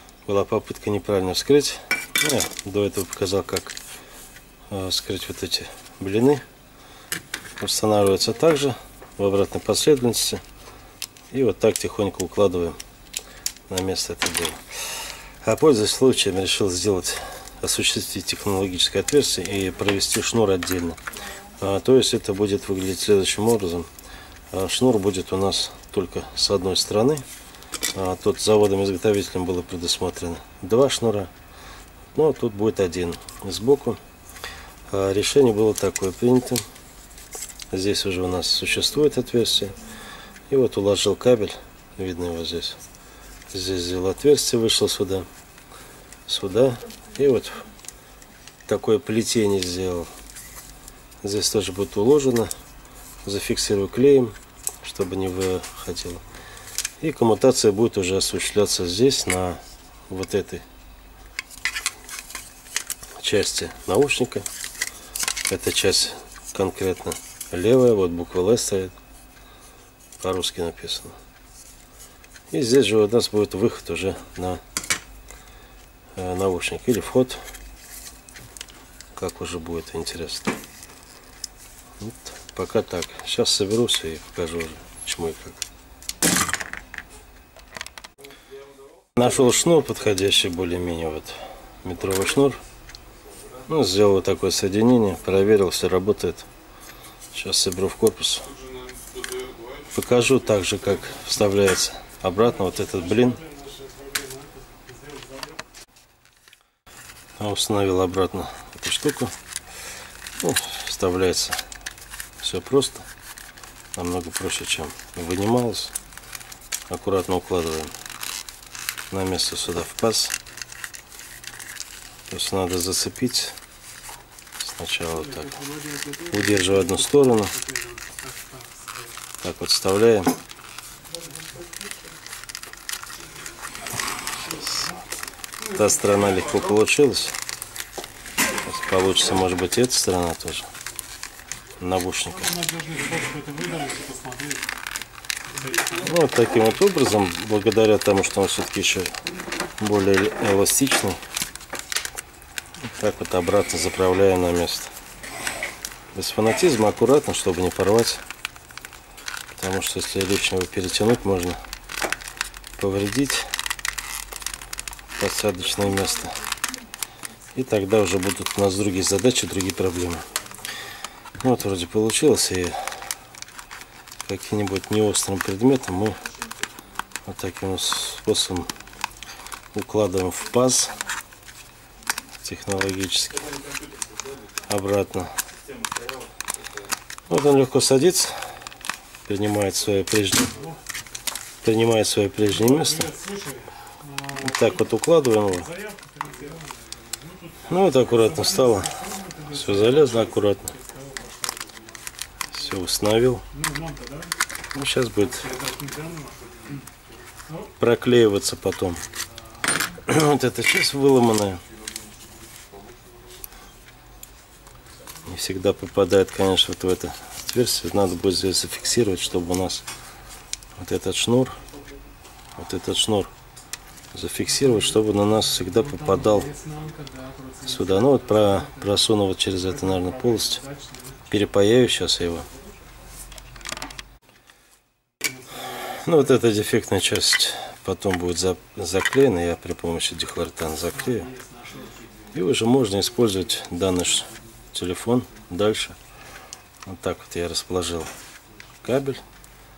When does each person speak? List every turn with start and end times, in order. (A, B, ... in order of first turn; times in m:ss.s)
0:00.3-0:03.8 A
0:04.7-0:06.4 A
0:07.6-0:10.4 A
0:11.3-0:12.8 A
0:13.7-0:14.6 A
0:15.4-0:23.9 A
0:24.5-0:27.2 A
0:27.9-0:31.3 A
0:32.2-0:34.0 A
0:34.9-0:36.6 A
0:37.7-0:39.8 A
0:40.5-0:42.8 A
0:43.5-0:45.3 A
0:46.3-0:47.7 A
0:48.7-0:50.1 A
0:51.2-0:52.5 A
0:53.2-0:56.2 A
0:57.0-1:00.6 A
1:03.2-1:04.5 A
1:05.5-1:08.9 A
1:10.2-1:11.2 A
1:12.5-1:14.6 A
1:16.2-1:17.4 A
1:19.2-1:20.5 A
1:22.0-1:25.6 A
1:29.2-1:32.6 A
1:33.7-1:36.5 A
1:37.3-1:38.6 A
1:39.8-1:43.4 A
1:42.4-1:45.6 B
1:47.4-1:49.3 A
1:50.4-1:51.6 A
1:52.4-1:53.1 A
1:54.0-1:55.9 A
1:56.9-1:57.9 A
1:59.1-2:00.4 A
2:02.3-2:03.6 A
2:04.6-2:05.6 A
2:05.2-2:09.1 B
2:06.3-2:07.5 A
2:09.4-2:10.3 A
2:11.4-2:11.9 B
2:14.6-2:15.0 B
2:15.6-2:16.7 B
2:15.7-2:17.4 A
2:18.6-2:20.7 A
2:21.8-2:22.5 A
2:22.3-2:24.7 B
2:25.5-2:26.2 B
2:25.9-2:29.1 A
2:29.8-2:31.2 A
2:32.8-2:34.9 A
2:36.2-2:38.2 A
2:39.6-2:41.6 A
2:42.8-2:43.4 A
2:45.2-2:46.5 A
2:47.6-2:50.3 A
2:51.4-2:52.8 A
2:54.2-2:56.2 A
2:57.3-2:58.7 A
2:59.7-3:01.0 A
3:02.4-3:03.7 A
3:04.7-3:05.3 A
3:07.3-3:08.3 A
3:09.2-3:10.6 A
3:11.6-3:13.1 A
3:12.5-3:14.9 B
3:14.4-3:15.7 A
3:15.5-3:22.0 B
3:17.7-3:19.0 A
3:19.5-3:20.7 A
3:22.5-3:23.4 A
3:23.5-3:24.3 B
3:24.7-3:25.4 A
3:25.2-3:26.9 B
3:27.5-3:27.7 B
3:27.8-3:29.0 A
3:29.9-3:31.6 A
3:35.2-3:39.8 A
3:40.8-3:41.6 A
3:42.6-3:43.3 A
3:44.1-3:46.5 A
3:44.5-3:51.2 B
3:47.7-3:50.6 A
3:51.3-3:52.5 A
3:55.2-3:56.5 B
3:55.9-4:01.3 A
4:00.9-4:02.3 B
4:02.3-4:06.0 A
4:06.9-4:08.1 A
4:08.8-4:09.2 A